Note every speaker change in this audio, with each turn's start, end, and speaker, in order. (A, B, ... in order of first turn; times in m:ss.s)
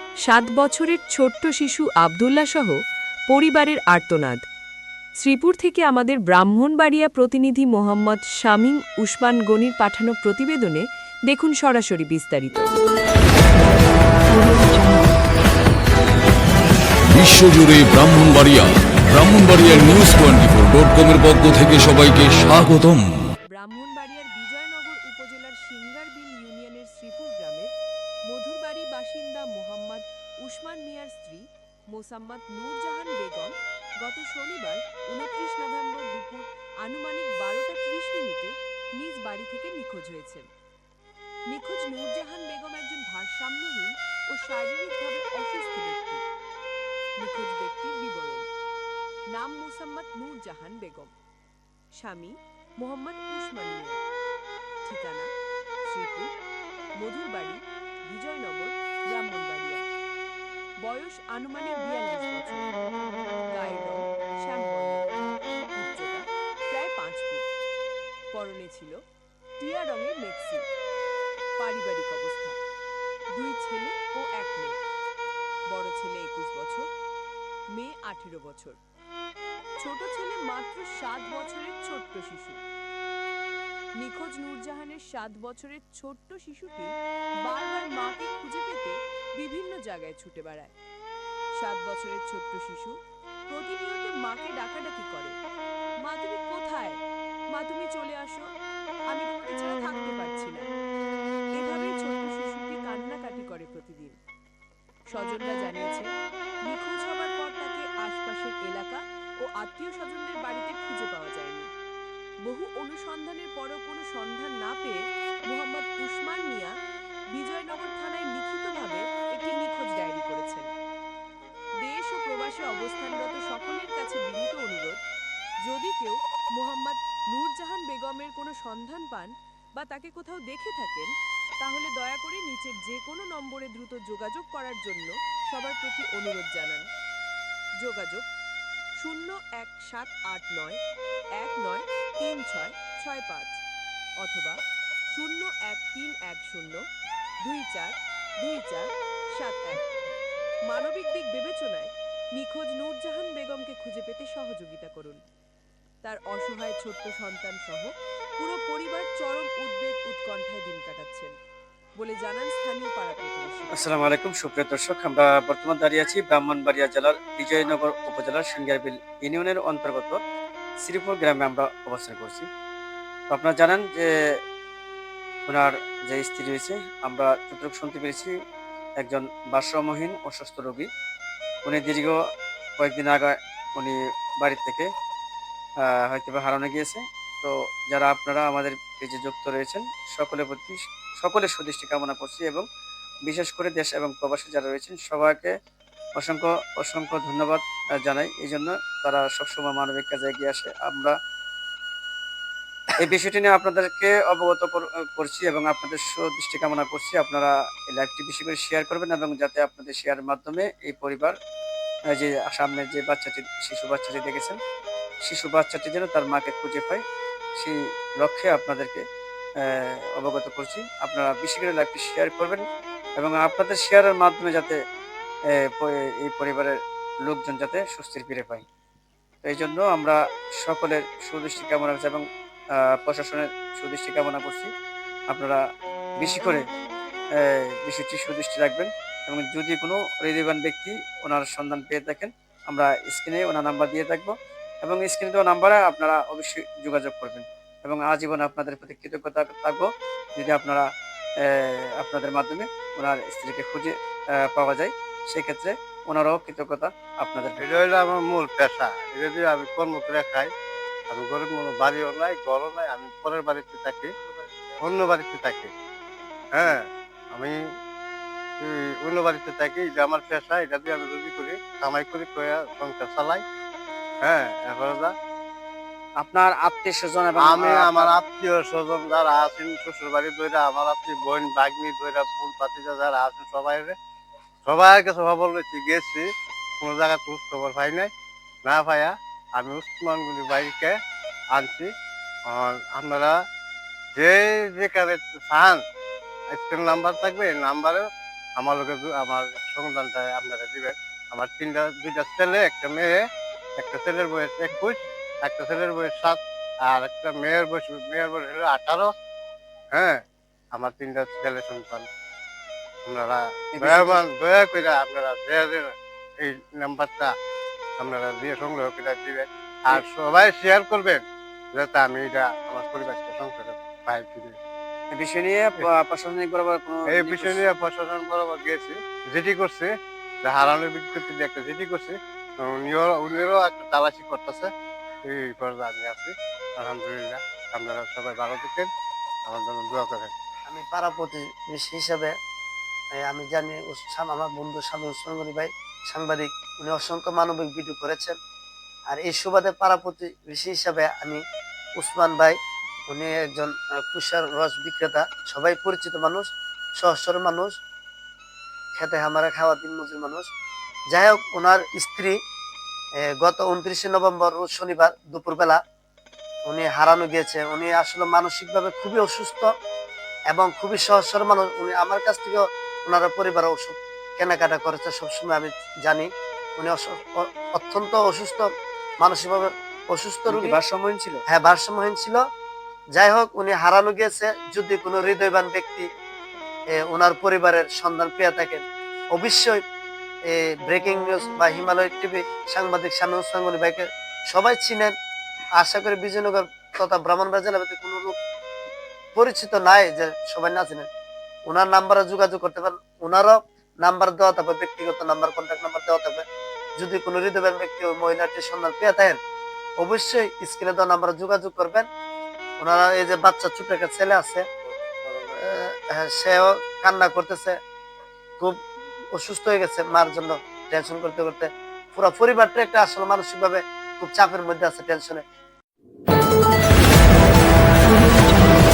0:00.2-0:04.4 A
0:05.2-0:12.7 A
0:17.1-0:23.1 B
0:23.5-0:27.7 A
0:28.2-0:40.5 A
0:41.5-0:46.2 A
0:47.2-0:48.4 A
0:49.3-0:51.1 A
0:52.0-0:54.0 A
0:54.8-0:55.3 A
0:55.8-0:56.3 A
0:57.0-0:59.8 A
1:00.8-1:02.7 A
1:03.5-1:05.0 A
1:05.7-1:07.5 A
1:08.3-1:09.0 A
1:09.6-1:10.6 A
1:11.6-1:12.6 A
1:13.3-1:14.8 A
1:15.7-1:16.9 A
1:17.7-1:18.8 A
1:19.8-1:22.6 A
1:24.0-1:30.7 A
1:31.6-1:32.9 A
1:33.5-1:35.4 A
1:36.0-1:37.0 A
1:37.5-1:38.4 A
1:39.1-1:40.7 A
1:41.5-1:44.2 A
1:45.1-1:46.1 A
1:46.6-1:51.7 A
1:52.4-1:56.7 A
1:57.3-2:00.7 A
2:01.8-2:05.0 A
2:05.6-2:16.8 A
2:17.8-2:18.3 A
2:19.0-2:20.8 A
2:21.4-2:23.6 A
2:24.2-2:24.6 A
2:25.1-2:26.8 A
2:27.4-2:29.8 A
2:30.6-2:35.2 A
2:36.0-2:41.3 A
2:42.0-2:43.7 A
2:43.8-2:50.2 C
2:50.8-2:52.5 C
2:53.3-2:54.1 C
2:55.5-2:58.3 C
2:59.0-3:00.9 C
3:01.6-3:02.2 C
3:02.8-3:04.9 C
3:05.9-3:12.6 C
3:13.2-3:15.5 C
3:16.2-3:21.1 C
3:22.9-3:31.3 C
3:32.1-3:34.6 C
3:35.2-3:37.0 C
3:37.6-3:39.0 C
3:39.6-3:42.6 C
3:43.2-3:44.8 C
3:45.5-3:48.6 C
3:49.4-3:52.2 C
3:52.8-3:54.7 C
3:55.3-3:55.6 C
3:56.2-3:56.6 C
3:57.4-4:10.9 C
4:11.4-4:17.6 C
4:17.6-4:20.5 D
4:21.1-4:24.1 D
4:24.8-4:25.7 D
4:26.5-4:27.6 D
4:28.6-4:33.4 D
4:34.2-4:35.1 D
4:36.2-4:38.1 C
4:37.4-4:43.9 D
4:44.6-4:46.3 D
4:46.8-4:48.1 D
4:48.6-4:51.0 D
4:51.5-4:51.9 D
4:52.5-4:53.3 D
4:54.2-4:55.8 D
4:56.5-5:03.2 D
5:03.8-5:09.1 D
5:09.9-5:10.2 D
5:10.7-5:12.1 D
5:13.0-5:17.3 D
5:13.7-5:14.2 C
5:18.0-5:24.6 D
5:25.1-5:27.6 C
5:27.1-5:34.7 D
5:35.2-5:38.9 D
5:39.4-5:40.3 D
5:40.7-5:42.3 E
5:43.2-5:48.4 E
5:49.1-5:51.4 E
5:52.0-5:52.6 E
5:53.1-5:57.7 E
5:59.0-6:00.5 E
6:01.1-6:02.4 E
6:03.4-6:05.8 E
6:06.7-6:09.7 E
6:10.5-6:18.7 E
6:19.2-6:20.8 E
6:20.5-6:21.4 C
6:21.5-6:22.4 E
6:23.2-6:26.0 E
6:26.9-6:29.8 E
6:30.5-6:35.1 E
6:35.8-6:38.3 E
6:39.3-6:41.1 E
6:41.6-6:46.4 E
6:47.0-6:49.4 E
6:50.0-6:52.1 E
6:52.8-6:54.6 E
6:55.0-6:55.5 D
6:55.6-6:57.8 E
6:59.3-7:05.4 E